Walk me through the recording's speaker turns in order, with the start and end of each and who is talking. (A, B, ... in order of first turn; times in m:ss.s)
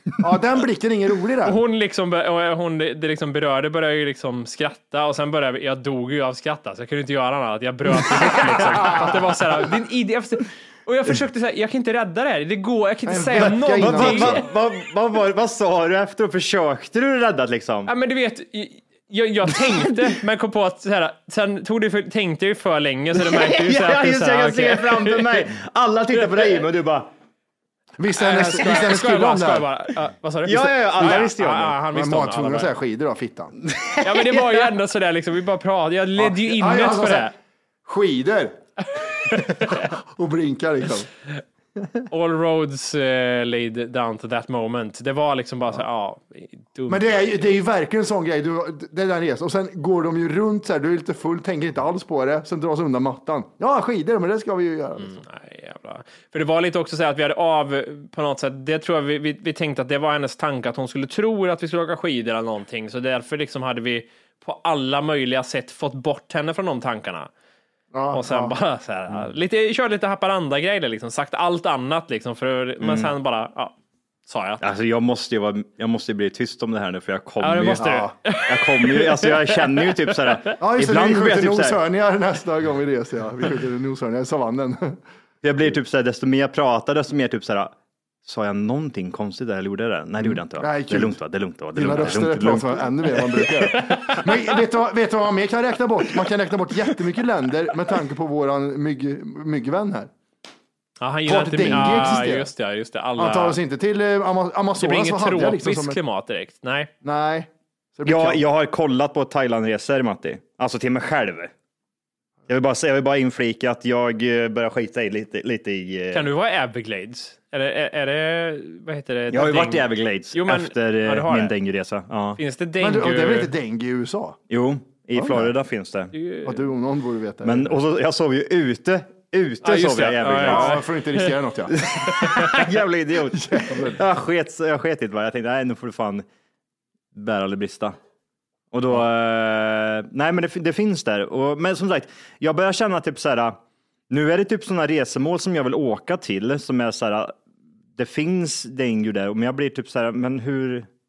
0:00.2-0:01.6 A
0:01.4-0:14.5 B
0:13.1-0:14.4 A
0:13.4-0:17.9 C
0:17.9-0:25.5 B
0:23.2-0:27.1 C
0:26.2-0:26.6 B
0:28.0-0:29.7 A
0:28.2-0:32.7 B
0:30.5-0:31.8 C
0:31.0-0:31.3 A
0:31.8-0:33.6 A
0:33.8-0:34.5 C
0:34.0-0:37.3 B
0:36.2-0:37.3 A
0:37.8-0:38.6 A
0:39.3-0:41.1 A
0:42.1-0:47.5 B
0:46.9-0:55.2 A
0:55.0-1:07.3 B
1:07.9-1:08.5 A
1:08.1-1:13.7 B
1:12.8-1:13.1 C
1:14.3-1:14.6 B
1:14.6-1:21.8 C
1:17.4-1:20.6 B
1:17.8-1:18.1 A
1:20.6-1:25.0 A
1:25.4-1:27.7 C
1:28.2-1:33.1 C
1:30.2-1:31.2 A
1:31.7-1:40.1 A
1:33.7-1:34.3 B
1:41.0-1:43.6 B
1:41.3-1:42.5 A
1:41.7-1:42.0 C
1:43.2-1:46.0 A
1:44.8-1:46.9 B
1:47.0-1:48.4 A
1:48.0-1:51.5 C
1:52.5-1:56.3 C
1:56.1-2:01.6 B
1:59.3-2:02.4 C
2:02.4-2:03.5 B
2:02.8-2:04.4 A
2:04.5-2:06.2 C
2:05.2-2:05.5 A
2:06.2-2:06.6 B
2:06.4-2:07.8 A
2:07.4-2:10.8 C
2:09.6-2:11.4 B
2:10.3-2:12.2 A
2:11.8-2:16.2 C
2:12.1-2:12.6 B
2:13.4-2:14.0 A
2:17.1-2:18.0 C
2:18.7-2:23.6 C
2:24.1-2:27.4 C
2:28.0-2:30.9 C